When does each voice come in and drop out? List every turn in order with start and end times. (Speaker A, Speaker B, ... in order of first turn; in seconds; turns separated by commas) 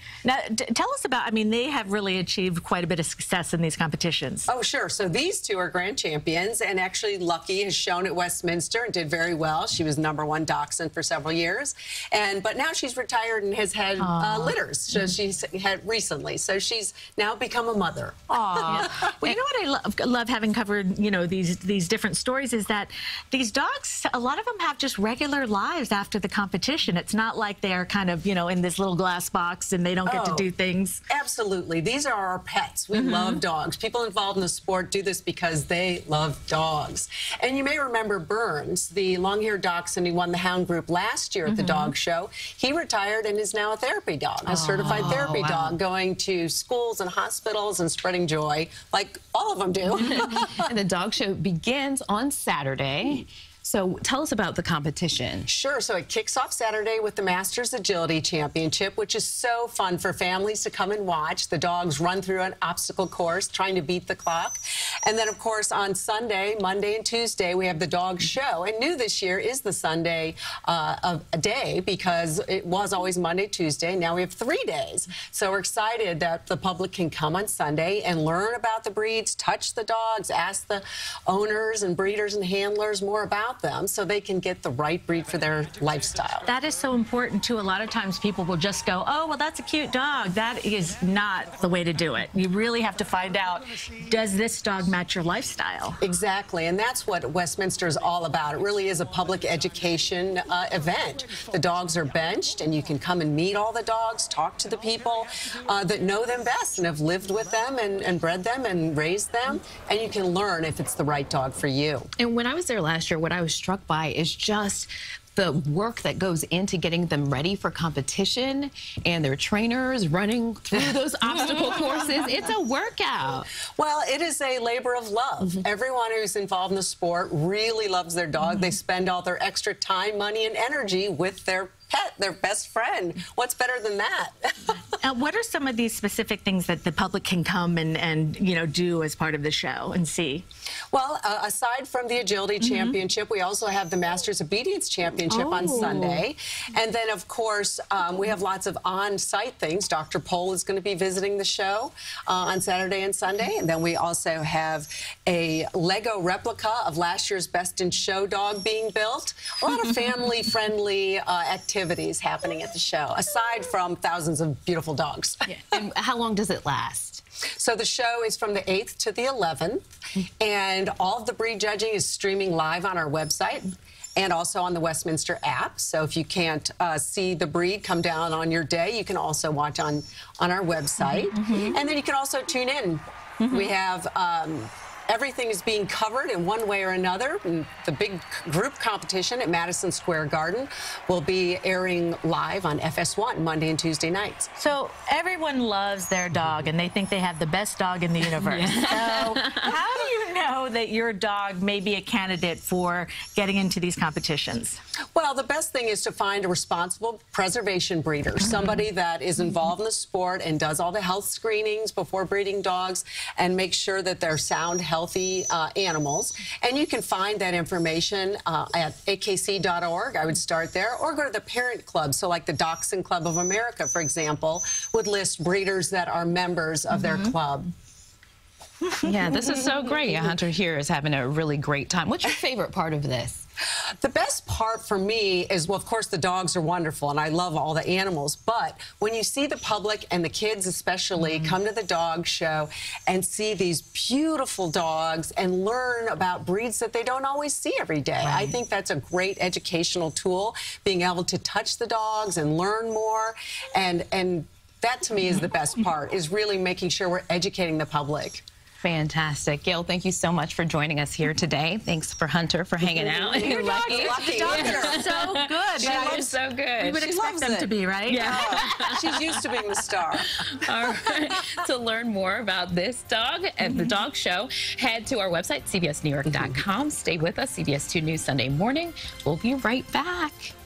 Speaker A: 0.2-4.5, Speaker B: 4.5-19.0, Speaker A: 14.0-14.6, Speaker A: 18.3-31.0, Speaker B: 30.0-30.5, Speaker B: 31.1-50.7, Speaker A: 32.9-33.4, Speaker A: 41.5-41.9, Speaker C: 44.5-45.8, Speaker C: 50.1-55.5, Speaker B: 55.5-86.5, Speaker A: 86.5-96.0, Speaker B: 96.0-112.1, Speaker C: 112.2-123.5, Speaker B: 120.7-122.0, Speaker B: 123.8-134.8, Speaker A: 135.0-140.4, Speaker B: 140.9-165.8, Speaker A: 142.6-143.0, Speaker A: 145.3-146.2, Speaker C: 165.5-167.2, Speaker B: 167.5-169.8, Speaker B: 170.4-194.5, Speaker C: 181.0-181.8, Speaker C: 183.4-183.7, Speaker A: 194.6-204.8, Speaker C: 198.4-199.7, Speaker B: 205.1-227.7, Speaker A: 208.4-208.8, Speaker C: 229.0-233.4, Speaker B: 234.0-258.4, Speaker A: 248.3-248.5, Speaker C: 258.8-267.1, Speaker B: 262.8-265.0, Speaker A: 263.4-268.6, Speaker B: 265.8-266.4, Speaker B: 266.9-271.4, Speaker C: 268.1-269.6, Speaker C: 270.4-280.6, Speaker B: 276.3-276.6